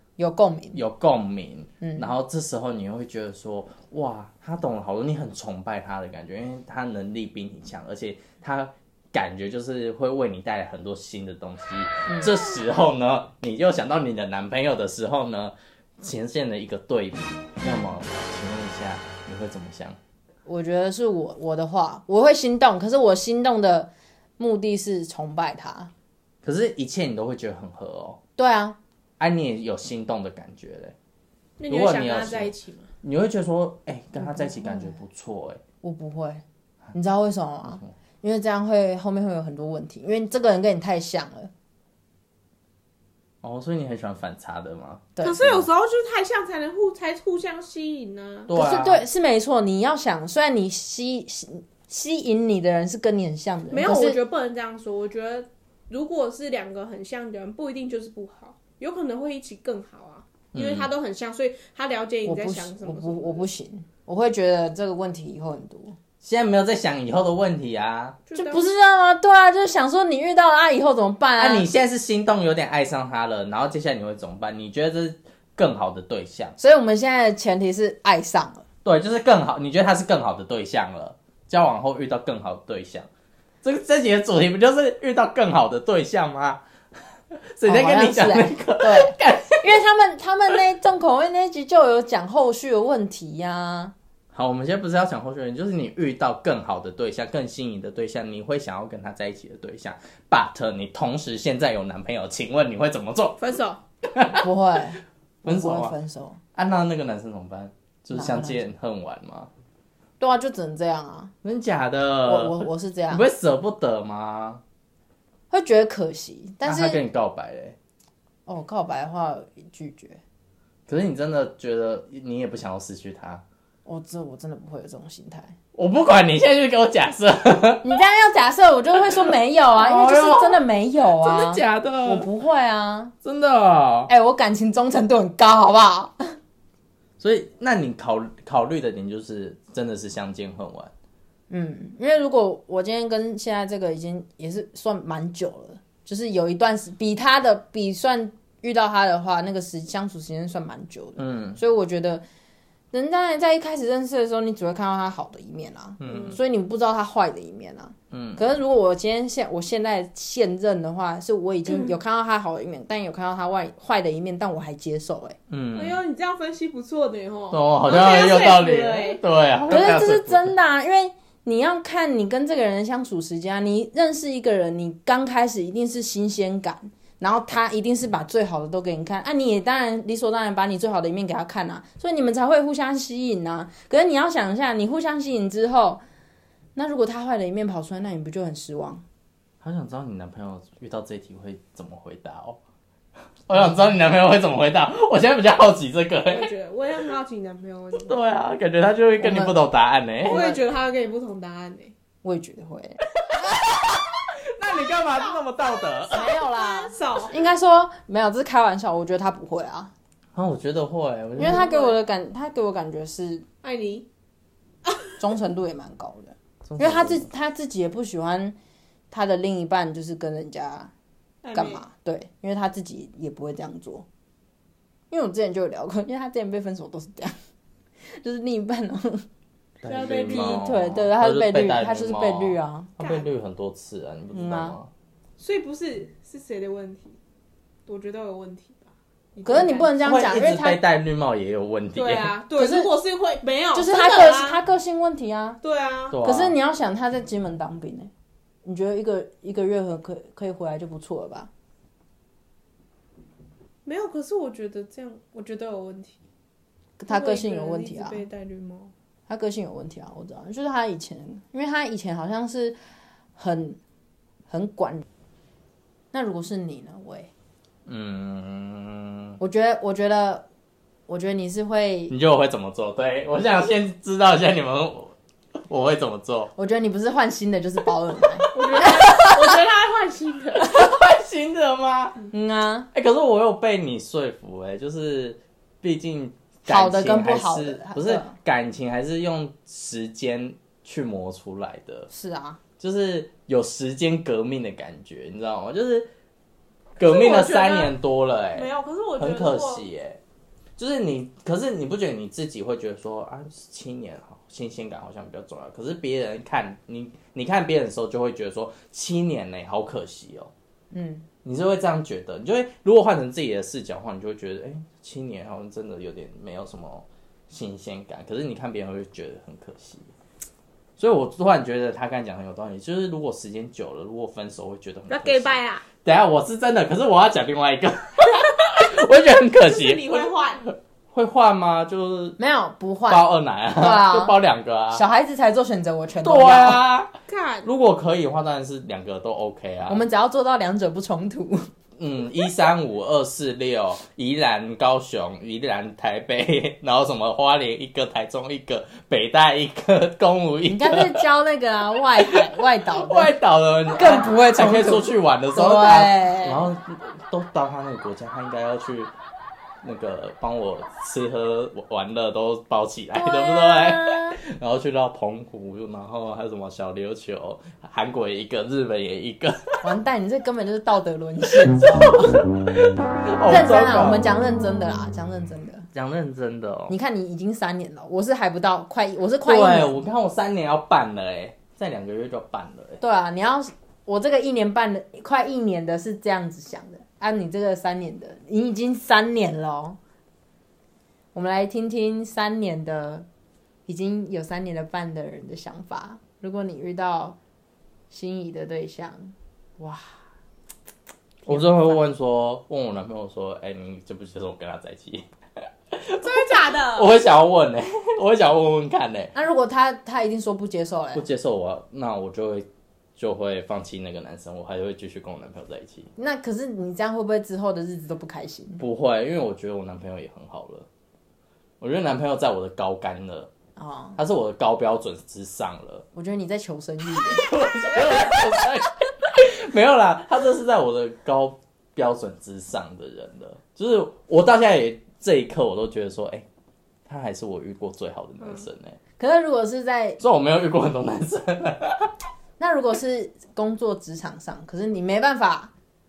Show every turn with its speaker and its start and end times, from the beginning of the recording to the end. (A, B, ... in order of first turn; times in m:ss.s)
0:00.2-0:00.8 A
0:00.7-0:20.0 B
0:01.8-0:02.1 A
0:12.1-0:12.3 A
0:20.5-0:25.9 A
0:26.4-0:28.2 B
0:28.4-0:28.8 A
0:29.2-0:31.0 B
0:31.6-0:32.9 C
0:31.7-0:35.6 B
0:34.2-0:35.0 A
0:35.8-0:41.5 A
0:43.4-0:45.7 B
0:45.2-0:45.4 A
0:45.2-0:48.5 C
0:48.5-0:49.0 B
0:48.5-0:54.2 A
0:53.7-1:03.5 C
1:00.5-1:00.9 B
1:02.2-1:06.0 A
1:06.2-1:08.2 B
1:08.3-1:08.7 C
1:08.4-1:11.7 A
1:11.4-1:16.6 B
1:16.6-1:18.6 A
1:18.8-1:23.1 B
1:23.6-1:26.6 B
1:27.3-1:29.8 B
1:27.7-1:33.9 A
1:34.3-1:43.4 B
1:43.4-1:43.8 C
1:44.1-1:44.5 B
1:44.4-1:46.4 A
1:45.4-1:46.0 B
1:46.6-1:49.5 B
1:48.1-1:48.6 A
1:50.2-1:51.3 A
1:51.4-1:54.6 B
1:52.2-1:53.3 A
1:55.5-1:57.0 A
1:56.6-1:57.8 B
1:58.5-2:00.2 A
2:00.9-2:03.4 B
2:03.8-2:05.6 A
2:05.7-2:07.8 B
2:07.8-2:13.2 A
2:09.0-2:12.3 B
2:13.2-2:14.1 B
2:14.1-2:16.4 A
2:17.2-2:20.9 B
2:21.5-2:32.2 A
2:31.2-2:31.6 B
2:32.9-2:45.4 A
2:36.0-2:36.4 B
2:36.0-2:36.4 C
2:38.1-2:38.4 B
2:41.7-2:41.9 C
2:45.5-2:46.0 B
2:45.7-2:49.2 C
2:47.5-2:50.5 B
2:49.7-3:06.0 A
3:06.8-3:09.0 A
3:09.6-3:12.6 B
3:13.5-3:16.5 B
3:16.3-3:18.2 C
3:17.9-3:20.4 B
3:19.2-3:19.6 A
3:20.2-3:21.9 C
3:20.2-3:20.6 A
3:22.2-3:23.0 A
3:23.2-3:26.4 B
3:26.1-3:29.9 A
3:26.1-3:27.4 C
3:30.3-3:31.7 B
3:31.4-3:33.5 A
3:31.4-3:32.0 C
3:33.6-3:34.1 C
3:35.2-3:38.6 A
3:36.6-3:37.3 B
3:39.1-3:40.9 A
3:41.4-3:41.8 C
3:41.5-3:44.1 A
3:45.1-3:47.4 A
3:48.1-3:49.3 A
3:49.8-3:54.9 B
3:49.8-3:50.6 C
3:50.3-3:53.0 A
3:54.3-3:54.8 A
3:55.4-3:57.2 C
3:57.9-4:00.0 C
3:59.4-4:00.8 A
4:00.0-4:02.3 B
4:02.0-4:04.6 C
4:02.6-4:02.9 A
4:03.7-4:05.6 A
4:05.6-4:06.2 C
4:06.1-4:06.6 B
4:06.2-4:08.1 A
4:08.6-4:11.5 A
4:13.8-4:16.2 C
4:17.0-4:18.2 A
4:17.1-4:18.9 C
4:19.3-4:22.8 A
4:23.4-4:23.8 A
4:24.5-4:25.0 A
4:26.1-4:27.3 A
4:27.9-4:29.4 B
4:29.4-4:30.4 A
4:31.1-4:32.1 A
4:32.1-4:35.2 B
4:35.7-4:36.5 B
4:36.6-4:39.3 A
4:38.5-4:40.8 C
4:40.7-4:42.2 B
4:42.3-4:42.9 A
4:42.9-4:52.1 B
4:46.7-4:48.4 A
4:52.1-4:52.6 A
4:52.8-4:56.1 B
4:57.0-5:00.2 B
4:57.0-4:57.9 C
4:58.5-4:59.9 C
5:00.8-5:10.5 B
5:10.9-5:11.2 A
5:11.4-5:20.1 B
5:21.0-5:32.4 B
5:25.1-5:25.9 C
5:29.6-5:30.6 C
5:32.4-5:34.4 A
5:33.1-5:35.0 B
5:34.9-5:36.8 A
5:36.2-5:40.0 B
5:37.3-5:37.7 C
5:39.9-5:41.7 A
5:42.0-5:51.2 B
5:50.7-5:53.3 A
5:52.2-5:59.1 B
5:53.9-5:56.7 A
5:59.8-6:09.8 B
6:03.1-6:04.4 A
6:09.8-6:12.4 A
6:11.6-6:14.2 B
6:13.4-6:15.9 A
6:15.9-6:16.9 B
6:16.9-6:20.0 A
6:19.4-6:23.0 B
6:23.0-6:30.0 A
6:31.3-6:33.3 A
6:33.9-6:37.4 A
6:38.1-6:40.1 A
6:41.4-6:42.0 A
6:41.5-6:45.3 B
6:45.9-6:49.3 B
6:46.2-6:47.1 C
6:49.3-6:51.3 A
6:51.1-6:56.1 B
6:56.2-6:58.8 A
6:58.8-7:00.9 B
7:01.8-7:03.5 B
7:03.8-7:04.2 A
7:04.2-7:06.1 B
7:06.1-7:07.5 A
7:07.3-7:16.5 B
7:17.1-7:19.0 B
7:19.2-7:20.2 A
7:20.2-7:22.1 B
7:22.6-7:25.7 A